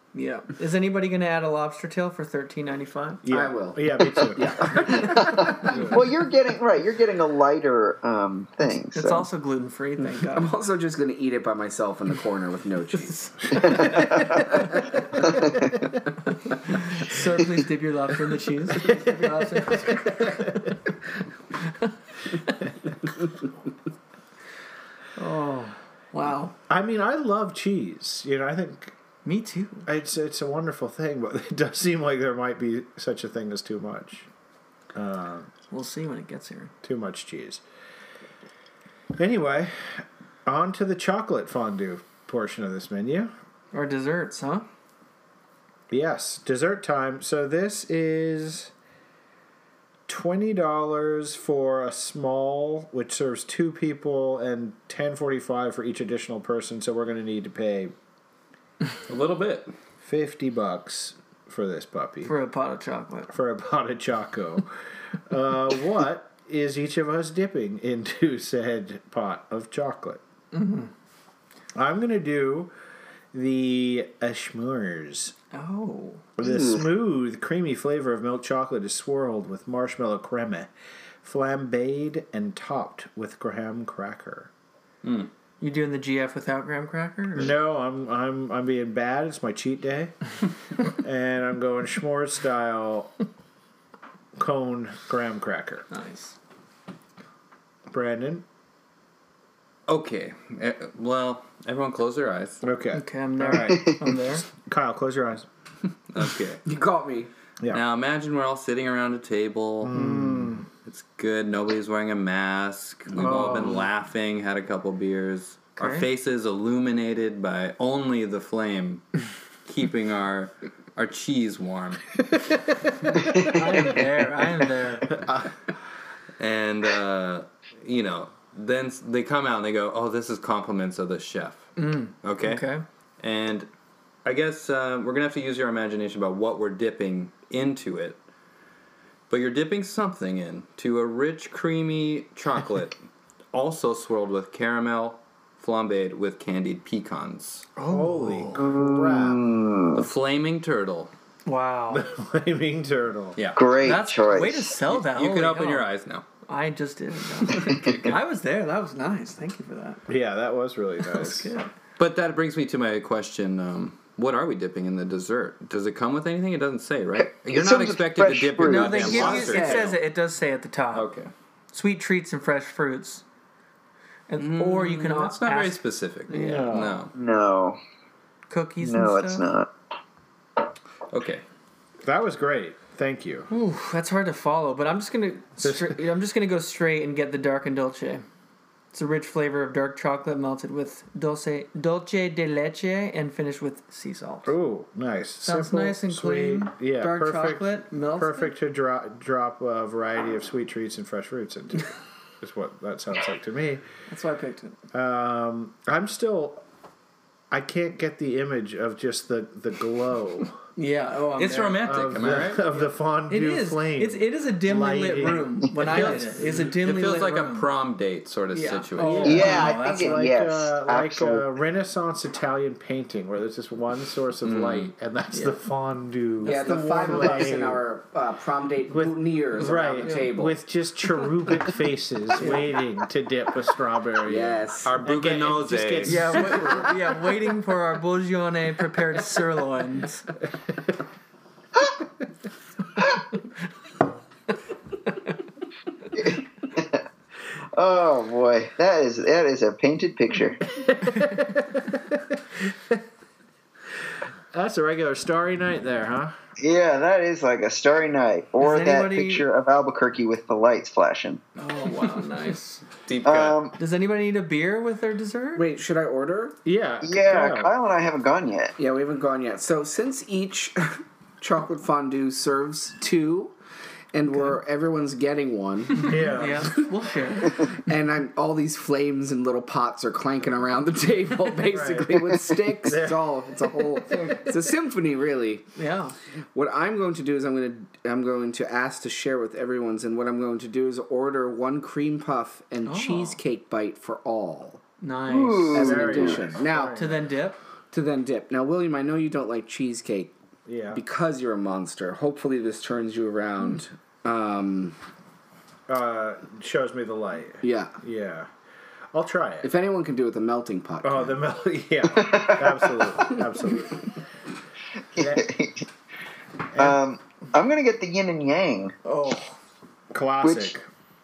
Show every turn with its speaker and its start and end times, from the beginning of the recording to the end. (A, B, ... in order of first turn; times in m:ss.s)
0:00.1-0:03.2 A
0:03.2-0:06.0 B
0:03.3-0:05.9 C
0:04.7-0:09.3 D
0:05.7-0:06.0 A
0:08.9-0:10.5 A
0:10.3-0:15.1 C
0:13.6-0:14.6 D
0:15.2-0:15.7 D
0:16.5-0:20.8 A
0:18.8-0:20.6 B
0:21.6-0:22.6 A
0:25.2-0:26.5 A
0:26.7-0:29.0 B
0:29.2-0:29.9 A
0:29.9-0:34.3 B
0:34.9-0:35.5 B
0:35.7-0:36.7 A
0:36.8-0:37.6 B
0:39.2-0:43.3 B
0:43.7-0:44.7 A
0:45.9-0:48.7 B
0:50.1-0:57.9 B
0:59.1-0:59.7 E
1:00.0-1:02.3 B
1:02.2-1:03.3 A
1:03.3-1:04.7 B
1:05.3-1:10.2 B
1:10.5-1:10.9 A
1:11.8-1:12.7 B
1:13.3-1:15.4 B
1:15.5-1:16.2 A
1:16.4-1:20.7 B
1:16.4-1:16.8 D
1:21.2-1:24.5 B
1:25.0-1:25.3 E
1:25.6-1:27.6 A
1:27.4-1:30.2 B
1:30.9-1:33.1 B
1:34.4-1:35.9 B
1:35.9-1:36.4 A
1:37.9-1:38.4 B
1:39.9-1:42.6 E
1:42.6-1:45.5 B
1:42.9-1:44.4 A
1:46.1-1:46.6 E
1:46.6-1:47.3 C
1:47.7-1:50.0 E
1:49.8-1:50.7 B
1:49.9-1:50.6 A
1:50.8-2:02.2 E
1:53.2-1:53.8 A
1:53.2-1:53.8 B
1:55.8-1:56.1 A
2:03.3-2:05.2 A
2:05.1-2:05.5 B
2:06.4-2:11.7 E
2:11.8-2:12.8 A
2:12.2-2:12.6 E
2:13.2-2:13.7 E
2:14.2-2:18.2 E
2:19.3-2:23.0 E
2:23.5-2:27.7 E
2:27.8-2:28.6 A
2:27.9-2:29.4 B
2:28.5-2:30.1 D
2:29.9-2:31.1 E
2:31.5-2:32.1 A
2:31.9-2:33.4 B
2:33.4-2:33.6 E
2:33.6-2:34.8 D
2:33.8-2:35.9 A
2:34.9-2:36.2 E
2:36.5-2:40.0 A
2:37.6-2:38.2 D
2:37.6-2:38.2 E
2:40.1-2:41.5 B
2:41.1-2:41.7 A
2:42.0-2:50.0 E
2:47.2-2:49.4 D
2:48.6-2:51.1 A
2:49.2-2:49.9 C
2:50.9-2:51.3 E
2:51.7-2:53.2 A
2:54.3-2:56.8 A
2:54.4-2:57.1 E
2:56.3-2:57.0 B
2:57.1-2:57.8 D
2:58.5-2:59.4 A
2:58.8-2:59.7 D
3:01.1-3:01.4 E
3:02.0-3:03.5 B
3:03.5-3:08.2 A
3:05.6-3:06.0 B
3:08.9-3:14.5 A
3:14.5-3:23.8 B
3:15.4-3:18.5 A
3:24.1-3:24.8 A
3:24.9-3:26.6 B
3:27.5-3:30.6 B
3:30.8-3:31.8 A
3:31.4-3:32.6 E
3:31.8-3:35.5 B
3:32.7-3:37.7 A
3:35.8-3:39.4 E
3:38.5-3:40.3 A
3:39.0-3:47.8 B
3:39.2-3:41.5 D
3:44.4-3:44.9 E
3:45.3-3:45.6 A
3:46.4-3:47.6 A
3:46.4-3:50.6 C
3:48.9-3:56.9 B
3:50.0-3:50.3 A
3:52.4-3:52.7 A
3:54.3-3:55.0 C
3:54.8-3:56.4 E
3:56.0-4:00.3 A
4:06.2-4:07.0 D
4:07.8-4:10.6 D
4:10.7-4:13.0 B
4:14.5-4:16.3 B
4:16.6-4:21.4 D
4:18.6-4:19.5 A
4:21.6-4:22.8 A
4:23.1-4:23.6 E
4:23.2-4:23.8 D
4:23.8-4:25.6 A
4:25.6-4:26.6 C
4:26.6-4:27.7 B
4:27.0-4:28.8 D
4:28.8-4:33.6 C
4:34.1-4:36.9 C
4:36.0-4:36.7 B
4:36.0-4:37.7 A
4:37.4-4:45.7 C
4:41.7-4:44.4 B
4:45.8-4:46.1 A
4:46.5-4:54.8 C
4:52.8-4:53.4 A
4:55.0-4:55.8 A
4:55.3-4:56.5 D
4:55.7-4:57.0 C
4:55.8-4:57.2 B
4:56.9-4:57.6 A
4:57.9-5:00.3 C
5:00.7-5:01.0 B
5:00.9-5:05.0 C
5:05.9-5:08.5 B
5:07.6-5:08.0 C
5:09.1-5:09.7 B
5:09.6-5:11.3 C
5:11.0-5:14.1 B
5:12.1-5:13.1 D
5:15.2-5:15.5 B
5:15.2-5:15.9 D
5:16.7-5:17.0 B
5:16.8-5:18.9 D
5:19.0-5:19.6 A
5:20.1-5:20.9 B
5:20.4-5:20.7 D